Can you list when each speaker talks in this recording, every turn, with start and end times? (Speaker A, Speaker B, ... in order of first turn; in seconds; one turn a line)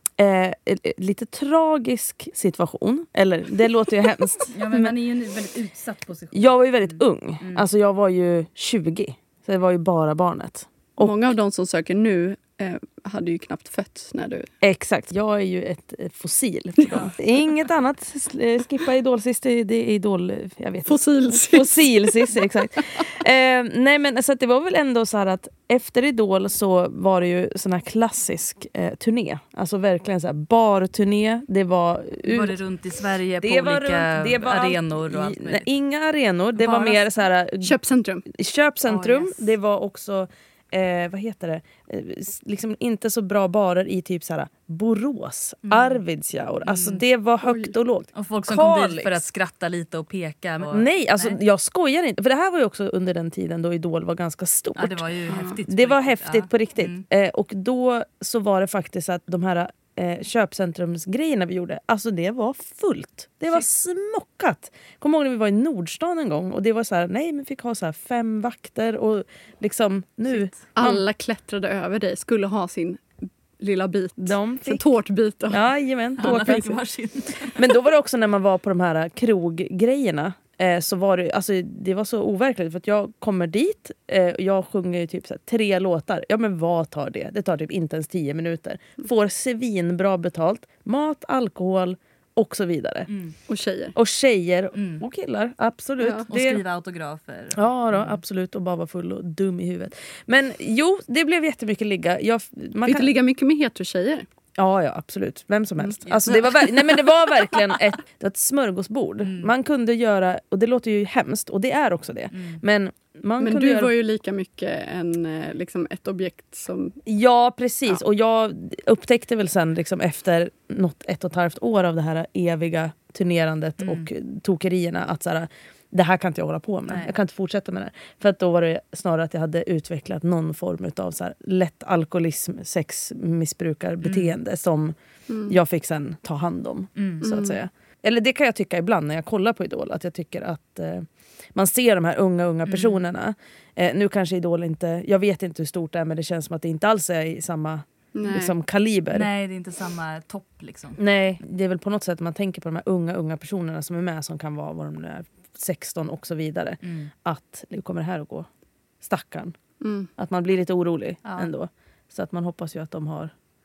Speaker A: 0.2-4.9
Speaker B: 4.5-7.7
Speaker A: 6.3-11.3
Speaker C: 11.0-14.5
Speaker A: 14.6-32.5
Speaker C: 16.8-17.1
Speaker C: 20.9-23.0
Speaker B: 32.2-35.7
Speaker A: 33.4-37.7
Speaker B: 36.6-37.0
Speaker C: 37.6-38.3
Speaker A: 38.3-49.2
Speaker B: 38.9-39.5
Speaker B: 45.6-46.0
Speaker B: 46.6-47.0
Speaker C: 47.4-47.7
Speaker B: 48.1-51.4
Speaker A: 50.7-71.0
Speaker B: 54.8-57.0
Speaker C: 55.3-55.6
Speaker C: 70.8-75.6
Speaker A: 74.2-74.8
Speaker A: 75.5-76.8
Speaker B: 76.2-77.6
Speaker C: 76.3-76.7
Speaker A: 77.5-93.1
Speaker B: 93.1-93.3
Speaker C: 93.5-94.0
Speaker A: 94.0-96.6
Speaker B: 94.7-95.0
Speaker C: 96.0-96.3
Speaker B: 96.3-98.2
Speaker A: 97.5-103.1
Speaker C: 102.8-104.3
Speaker A: 104.6-113.9
Speaker B: 106.2-106.7
Speaker B: 109.2-109.5
Speaker B: 112.3-112.6
Speaker C: 113.4-117.0
Speaker A: 117.1-134.9
Speaker B: 123.8-124.1
Speaker B: 134.0-134.3
Speaker C: 135.3-135.6
Speaker A: 135.5-149.3
Speaker B: 137.0-137.2
Speaker C: 137.2-137.6
Speaker B: 142.7-143.0
Speaker C: 148.2-148.6
Speaker B: 149.1-151.0
Speaker A: 151.0-158.5
Speaker B: 156.8-157.1
Speaker A: 159.0-159.6
Speaker C: 159.8-160.1
Speaker A: 160.2-163.3
Speaker B: 161.2-161.5